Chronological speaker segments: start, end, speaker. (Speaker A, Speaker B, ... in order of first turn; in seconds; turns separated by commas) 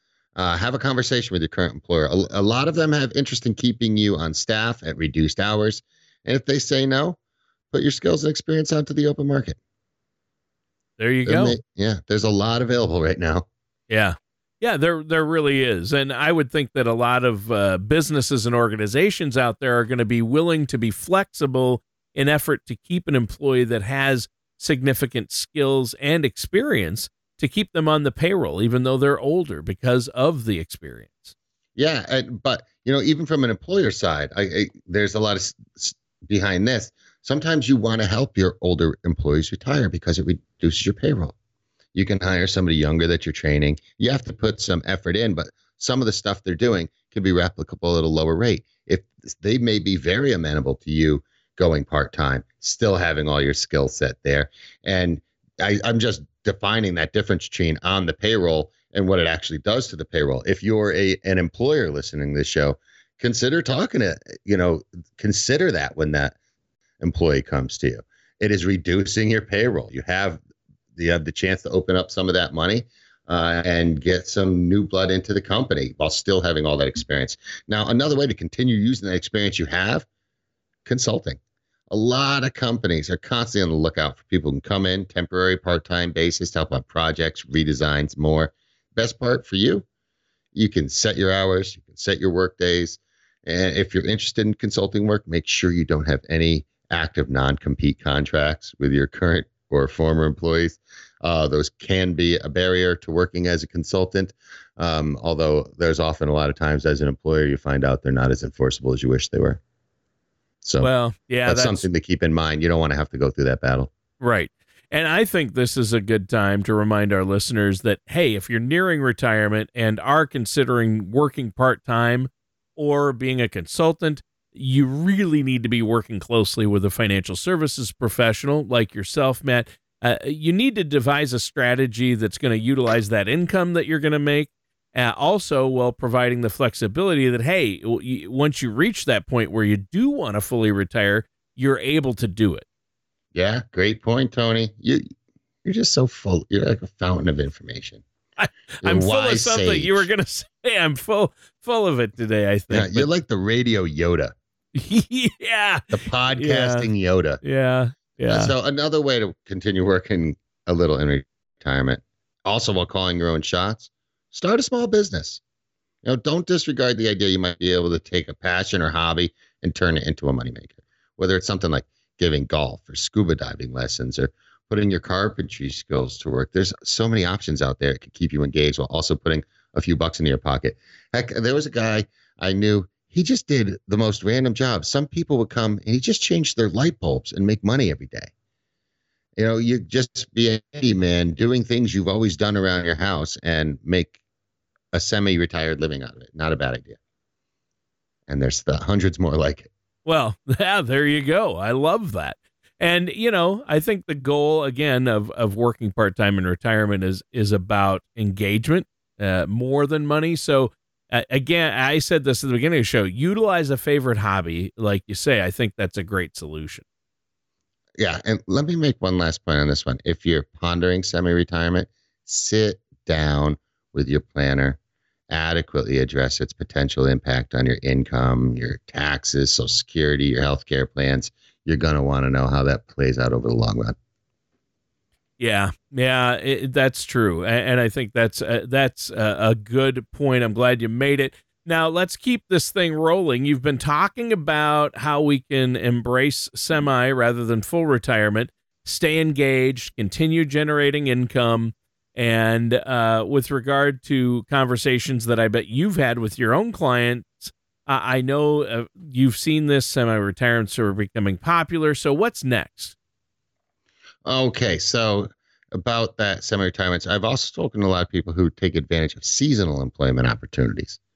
Speaker A: 0.4-7.2, Speaker A: 7.7-9.6, Speaker B: 11.0-11.6, Speaker A: 11.3-13.5, Speaker B: 13.9-31.3, Speaker A: 31.8-41.4, Speaker A: 42.0-66.3, Speaker A: 67.0-70.4, Speaker A: 71.0-80.1, Speaker A: 80.9-89.8, Speaker A: 90.5-109.6, Speaker A: 110.6-110.9, Speaker B: 110.8-111.9, Speaker A: 111.5-113.9, Speaker B: 114.2-142.7, Speaker A: 143.3-145.0, Speaker A: 145.6-148.0, Speaker B: 148.4-153.1, Speaker A: 148.8-150.1, Speaker A: 152.7-154.3, Speaker B: 154.7-156.9, Speaker A: 155.9-157.4, Speaker B: 157.4-158.5, Speaker A: 158.3-165.4, Speaker A: 166.0-188.3, Speaker A: 189.4-194.2, Speaker A: 194.9-197.0, Speaker A: 198.3-199.7, Speaker B: 200.1-216.8, Speaker A: 218.0-224.8, Speaker A: 225.3-234.0, Speaker B: 235.4-262.9, Speaker A: 264.2-271.0